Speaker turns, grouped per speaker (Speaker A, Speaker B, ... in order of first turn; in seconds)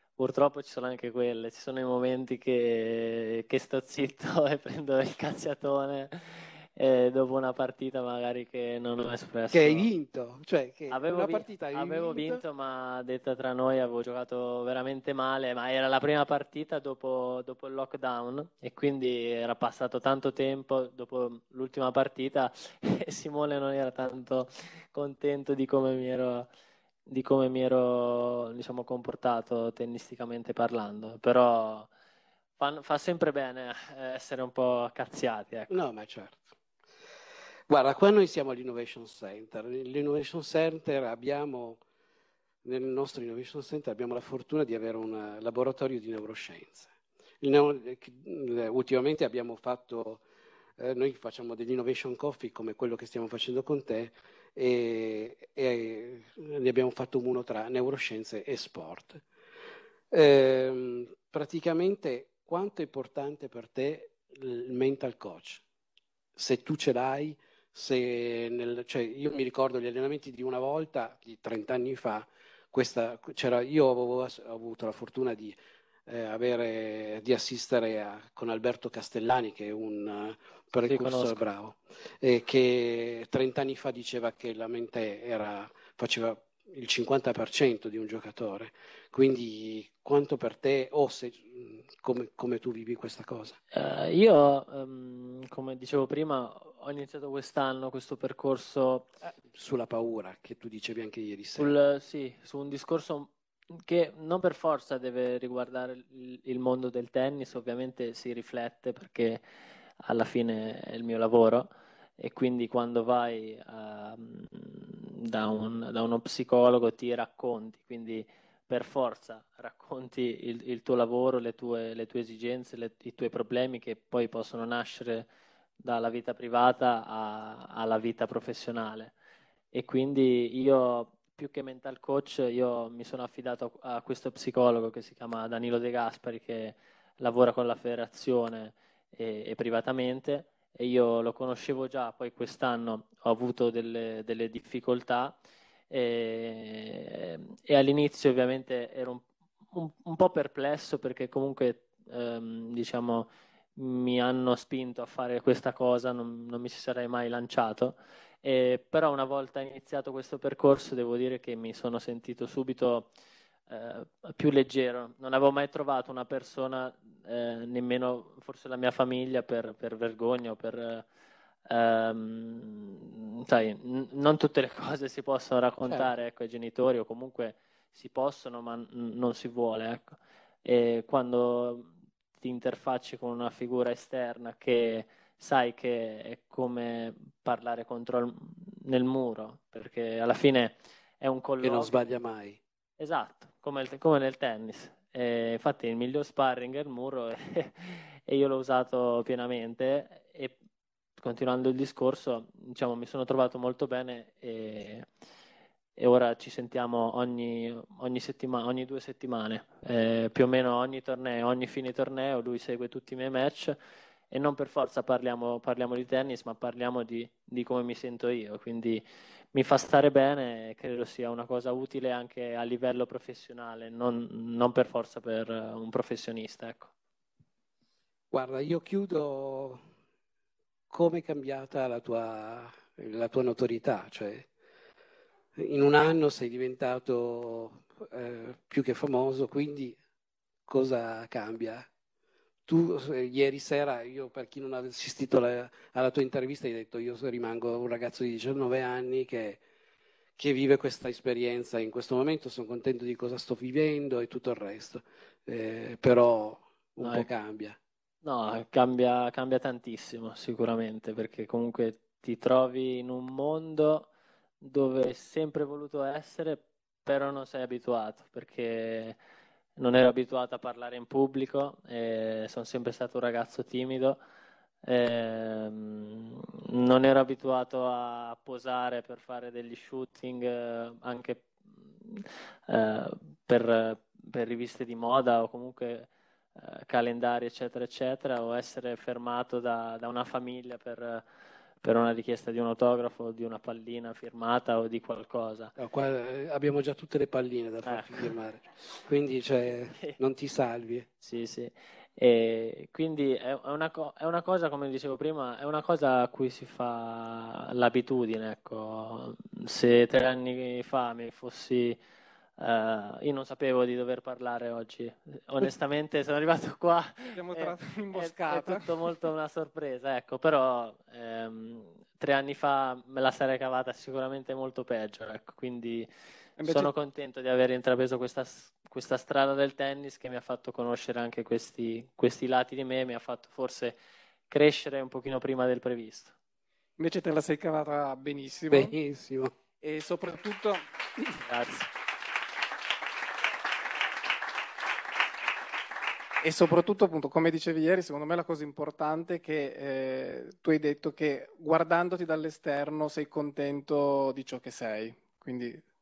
Speaker A: 0.2-9.9, 10.9-26.5, 27.1-31.9, 32.6-35.8, 80.8-81.4, 93.7-99.1, 101.6-109.4, 110.0-125.3, 125.8-129.1, 129.7-145.4, 145.9-163.1, 163.7-171.1, 171.7-192.0, 193.0-200.6, 201.2-205.1, 206.0-213.8, 214.3-226.9, 257.0-257.3, 258.2-264.1, 264.6-269.2, 269.8-274.2, 274.8-291.2, 291.8-295.7, 297.9-298.3, 301.2-312.0, 312.6-326.1, 326.6-334.0, 334.5-336.3, 341.4-341.9
Speaker B: 9.5-12.4, 35.7-36.5, 37.7-41.8, 42.6-46.9, 47.4-50.2, 50.8-59.2, 60.1-65.6, 66.4-75.6, 76.1-93.6, 99.2-101.8, 191.6-192.6, 228.3-229.8, 230.9-234.5, 235.6-240.0, 240.7-241.9, 242.7-249.6, 250.4-257.8, 295.8-301.1, 338.7-339.5
Speaker C: 317.4-318.9, 326.6-326.9, 337.0-338.9, 339.8-341.4, 346.4-355.8